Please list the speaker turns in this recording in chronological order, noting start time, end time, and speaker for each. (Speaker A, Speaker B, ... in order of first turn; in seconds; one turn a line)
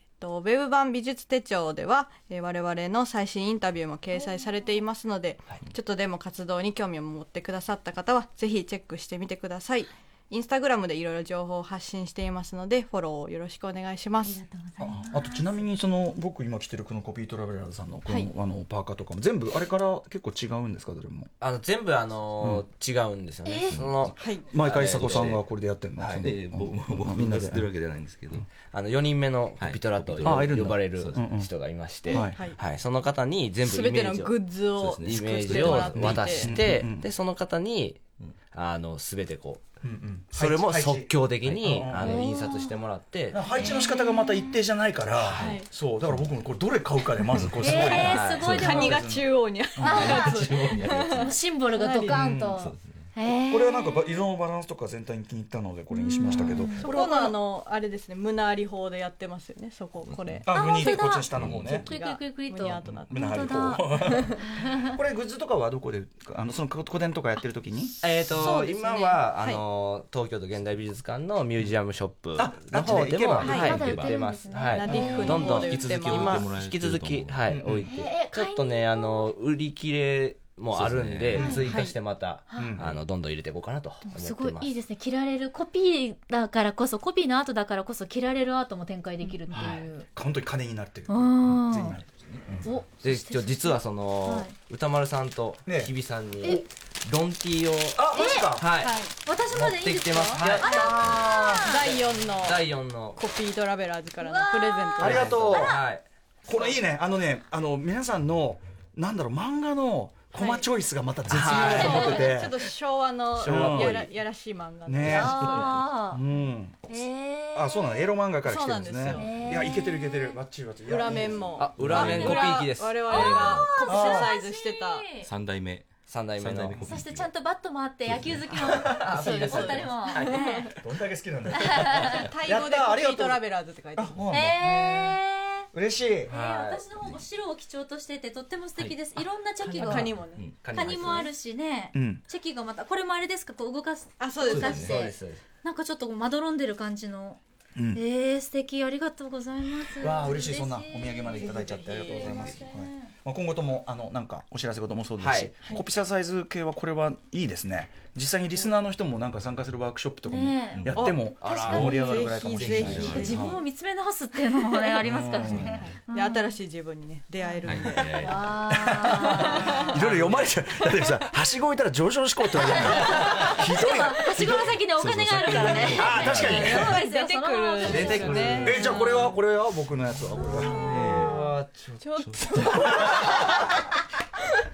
Speaker A: 0.2-14.4
Speaker B: 4.1-4.8
Speaker B: 14.2-15.5
Speaker C: 14.8-21.3
Speaker D: 21.4-25.4
Speaker C: 22.4-22.6
Speaker B: 23.4-23.8
Speaker E: 23.7-25.4
Speaker A: 24.2-24.5
Speaker C: 24.5-27.7
Speaker D: 26.0-26.3
Speaker E: 26.1-28.5
Speaker D: 28.7-38.0
Speaker E: 29.6-31.2
Speaker C: 30.2-32.4
Speaker A: 32.1-32.6
Speaker A: 33.6-36.5
Speaker E: 34.8-36.5
Speaker C: 36.3-37.1
Speaker D: 38.5-39.6
Speaker C: 39.8-42.3
Speaker D: 40.3-43.4
Speaker B: 42.0-42.8
Speaker C: 43.3-50.4
Speaker B: 43.5-44.6
Speaker D: 45.2-45.6
Speaker A: 45.4-45.7
Speaker E: 47.5-47.9
Speaker B: 47.6-49.1
Speaker D: 47.9-48.7
Speaker A: 48.4-52.2
Speaker B: 49.8-54.2
Speaker E: 50.2-51.3
Speaker D: 50.5-51.0
Speaker C: 52.1-52.6
Speaker E: 52.5-53.0
Speaker C: 53.2-57.4
Speaker B: 55.9-56.9
Speaker A: 56.8-64.5
Speaker E: 60.1-60.4
Speaker C: 60.4-61.9
Speaker B: 60.5-65.0
Speaker E: 61.3-61.9
Speaker E: 62.6-63.0
Speaker C: 63.1-68.0
Speaker D: 68.0-84.8
Speaker A: 68.3-69.6
Speaker B: 68.4-69.2
Speaker C: 72.3-74.0
Speaker A: 73.4-76.5
Speaker B: 73.5-75.4
Speaker C: 74.8-75.4
Speaker E: 75.2-77.9
Speaker C: 77.5-77.9
Speaker B: 77.9-79.3
Speaker E: 80.7-81.6
Speaker C: 81.3-81.6
Speaker B: 81.3-81.6
Speaker A: 81.6-82.0
Speaker B: 82.5-82.8
Speaker C: 82.6-83.0
Speaker B: 84.0-90.1
Speaker C: 89.5-92.7
Speaker B: 91.1-92.0
Speaker E: 92.2-92.6
Speaker B: 92.6-94.5
Speaker D: 93.0-99.0
Speaker C: 95.7-96.7
Speaker C: 98.0-98.7
Speaker B: 98.1-98.6
Speaker A: 98.8-99.2
Speaker B: 99.2-101.9
Speaker D: 99.5-103.2
Speaker C: 100.3-101.4
Speaker A: 101.5-105.5
Speaker B: 104.2-105.8
Speaker C: 105.0-105.8
Speaker D: 105.0-106.8
Speaker C: 106.5-112.6
Speaker A: 110.3-110.6
Speaker D: 111.3-112.3
Speaker A: 111.4-115.8
Speaker D: 113.3-114.1
Speaker C: 113.4-114.0
Speaker C: 114.8-121.6
Speaker B: 115.1-116.3
Speaker B: 116.9-118.1
Speaker A: 118.4-119.6
Speaker B: 119.1-120.4
Speaker A: 120.8-125.0
Speaker D: 121.6-123.7
Speaker E: 121.8-122.6
Speaker B: 123.0-125.3
Speaker E: 123.3-123.6
Speaker C: 123.8-124.3
Speaker E: 125.2-127.3
Speaker D: 126.1-126.9
Speaker B: 126.8-130.7
Speaker E: 128.1-128.9
Speaker C: 128.5-129.5
Speaker D: 128.8-130.5
Speaker A: 129.4-130.8
Speaker C: 130.7-133.4
Speaker B: 131.5-132.2
Speaker A: 131.9-134.2
Speaker C: 133.9-135.2
Speaker B: 134.3-135.7
Speaker C: 135.7-136.3
Speaker B: 136.3-147.4
Speaker D: 136.3-136.8
Speaker D: 139.6-141.3
Speaker A: 139.7-140.6
Speaker E: 140.2-140.6
Speaker C: 141.9-142.2
Speaker A: 144.2-145.1
Speaker E: 144.5-145.0
Speaker D: 144.7-145.4
Speaker C: 147.8-148.0
Speaker B: 147.9-153.1
Speaker C: 150.0-163.6
Speaker A: 151.4-152.3
Speaker D: 155.2-155.5
Speaker B: 160.2-160.9
Speaker E: 160.7-161.2
Speaker A: 160.9-163.6
Speaker D: 161.4-163.1
Speaker B: 161.7-162.2
Speaker E: 162.5-163.4
Speaker B: 163.0-166.6
Speaker C: 165.0-165.8
Speaker A: 165.5-168.4
Speaker B: 167.4-170.0
Speaker E: 167.6-168.6
Speaker C: 168.7-177.0
Speaker A: 169.0-169.9
Speaker D: 169.8-170.6
Speaker B: 172.6-179.4
Speaker E: 175.0-176.9
Speaker A: 176.2-178.9
Speaker D: 177.8-178.9
Speaker C: 178.6-181.0
Speaker A: 180.6-181.2
Speaker D: 180.8-182.2
Speaker E: 180.9-181.5
Speaker A: 182.0-183.8
Speaker E: 182.2-183.0
Speaker C: 182.7-183.5